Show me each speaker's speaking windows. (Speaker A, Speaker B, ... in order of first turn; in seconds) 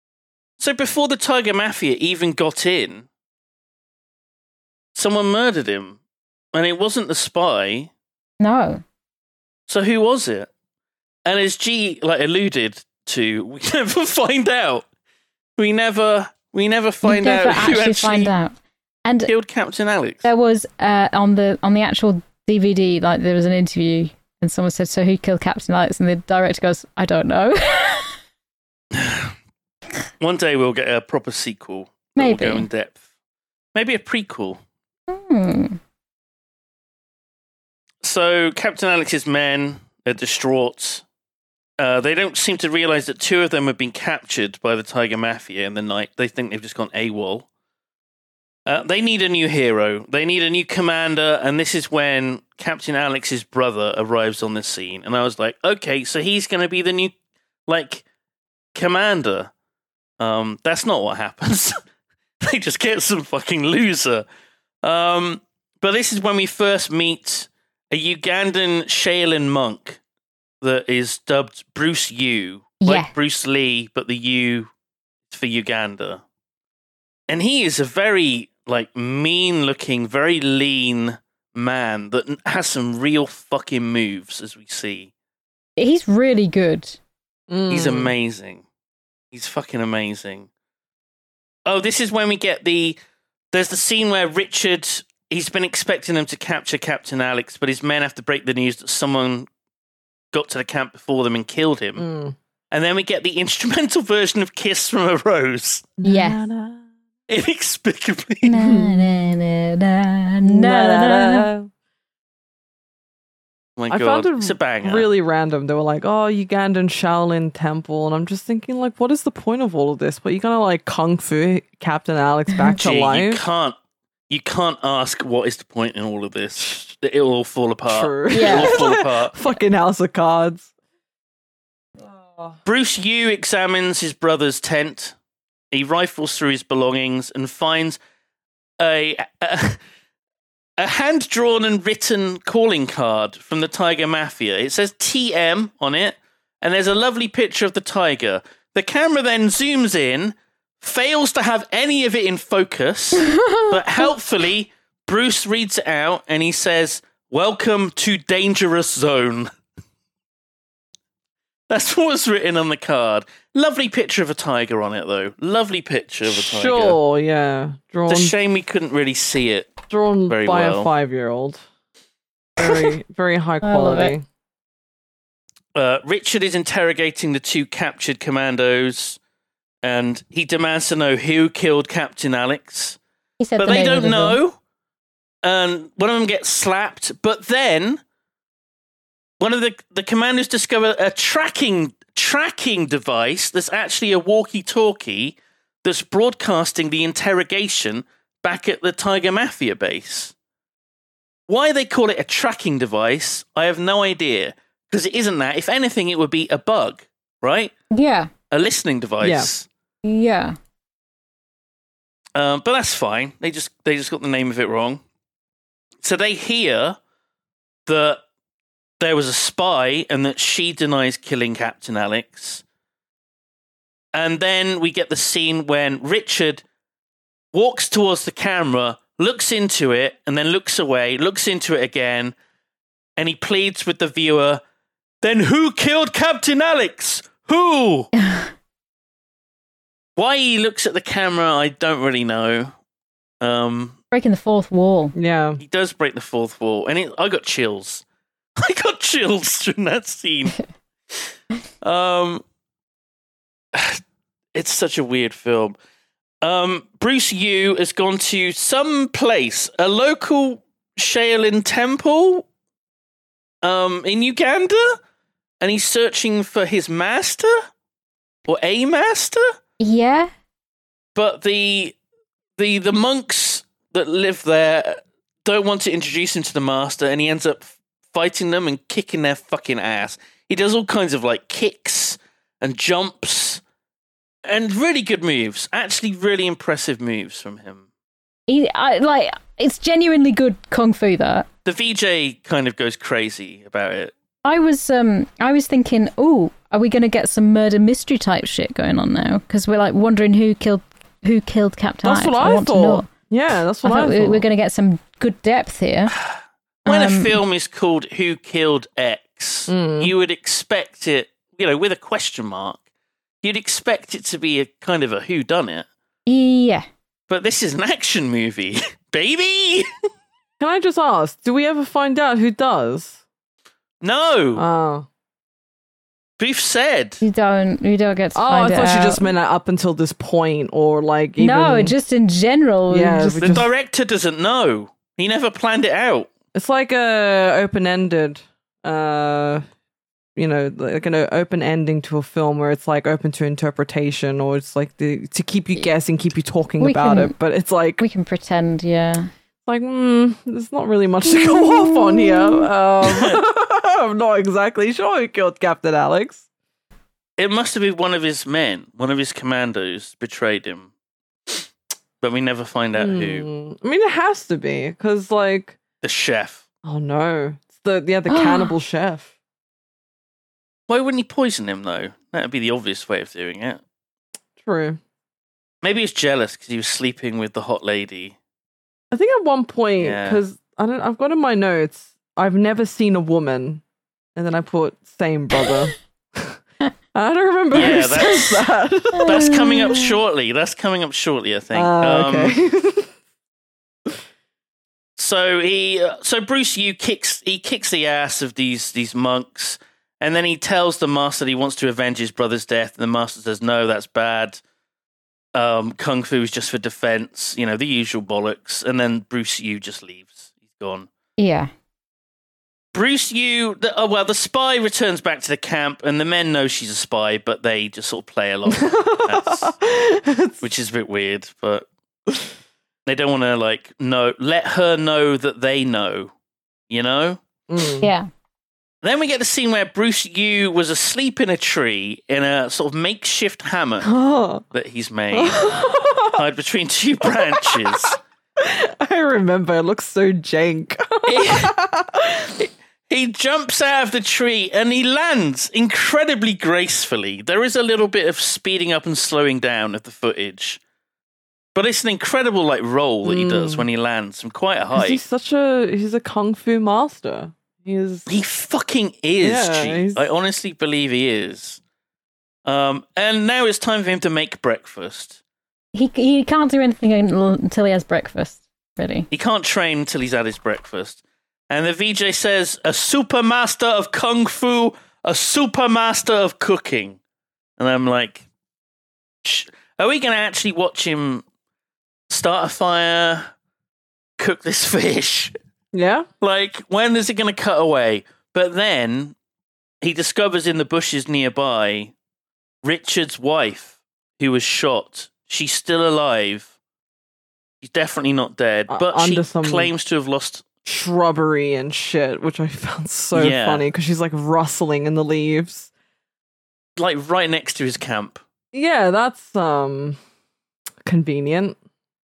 Speaker A: 0.6-3.1, 4.9-6.0, 6.5-7.9, 9.7-10.5, 11.2-14.8, 15.6-18.3, 19.2-20.2, 28.9-29.3, 30.2-33.0, 33.7-34.6, 38.0-41.0, 41.8-47.5, 48.6-57.1, 57.7-58.0, 58.7-59.5, 60.2-61.8, 62.4-64.2, 64.8-70.0, 70.6-74.7, 75.3-76.2, 77.3-85.1, 87.7-88.6, 89.3-90.5, 91.7-93.0, 93.5-99.5, 100.3-102.0, 102.7-105.9, 107.3-108.6, 113.8-115.1, 122.8-123.8, 124.3-129.3, 132.7-135.1, 135.7-138.0, 138.8-139.8, 140.8-159.5, 161.7-167.0, 168.1-169.8, 170.3-170.9, 175.7-179.2, 179.8-183.0, 183.6-184.6, 185.4-188.0, 189.4-200.3, 201.5-207.7, 208.5-209.7, 212.3-215.0, 216.0-217.0, 217.9-218.2, 219.0-222.6, 224.1-226.6, 227.5-232.3, 233.2-234.6, 235.2-238.1, 240.2-242.7, 243.4-243.9, 245.6-248.0, 248.6-250.6, 251.8-252.4, 253.7-254.0, 254.5-255.8, 256.4-262.4, 263.6-265.0, 265.6-267.5, 268.5-269.4, 271.1-271.9, 272.6-283.6, 284.4-287.8, 291.6-294.1, 306.9-312.8, 313.4-315.9, 317.3-319.9, 324.0-324.6, 326.4-327.2, 333.4-336.3, 353.0-353.4, 357.4-360.9, 362.2-363.5, 366.0-366.6, 370.9-373.8, 375.8-378.3, 380.0-380.4, 387.7-388.6, 389.2-392.5, 395.2-404.6, 405.5-411.1, 412.9-419.8, 420.6-421.9, 423.1-426.3, 426.9-427.4, 429.0-434.1, 434.7-435.7, 436.3-438.2, 441.2-441.7, 442.6-450.8, 451.7-455.2, 458.3-461.8, 462.6-465.4, 469.3-471.2, 471.7-477.2, 477.8-478.4, 479.4-481.4, 482.3-483.5, 484.4-485.5, 486.4-489.4, 490.0-492.1, 492.8-496.7, 497.8-500.6, 503.3-503.9, 507.0-508.4
Speaker B: 8.4-8.8, 17.0-19.3, 20.2-28.1, 32.2-32.6, 35.1-35.8, 72.8-73.1, 85.8-87.0, 106.0-106.4, 108.5-111.5, 128.3-128.8, 153.3-153.7, 172.6-172.9, 173.6-174.1, 183.4-184.4, 207.9-208.3, 210.0-210.6, 238.2-238.5, 244.1-245.1, 269.8-270.3, 288.5-291.5, 294.4-303.1, 303.8-306.1, 306.9-307.4, 316.3-316.9, 327.2-329.2, 331.4-333.6, 346.8-347.3, 348.0-349.3, 351.2-352.6, 368.3-368.7, 387.8-388.4, 389.1-389.9, 411.4-411.7, 428.0-428.3, 465.9-469.3
Speaker C: 87.5-88.1, 102.0-102.3, 106.0-106.8, 108.5-109.0, 110.5-111.7, 113.9-123.4, 126.6-126.8, 127.9-130.7, 132.2-132.6, 166.3-168.3, 169.9-171.6, 172.6-174.2, 209.2-209.5, 245.1-245.6, 302.0-304.4, 309.7-310.1, 320.6-323.2, 324.6-325.1, 328.3-331.9, 332.9-333.7, 336.5-339.6, 340.4-348.0, 349.6-356.4, 362.9-365.8, 366.8-369.3, 374.6-375.0, 379.1-383.8, 384.4-386.6, 387.1-390.0, 391.7-393.1, 418.7-420.6, 427.7-428.1, 434.0-434.6, 435.3-436.4, 437.2-442.5, 453.2-453.9, 454.9-458.3, 459.4-460.2, 485.9-486.3, 498.9-499.9, 500.8-505.9, 508.7-510.2, 511.0-511.8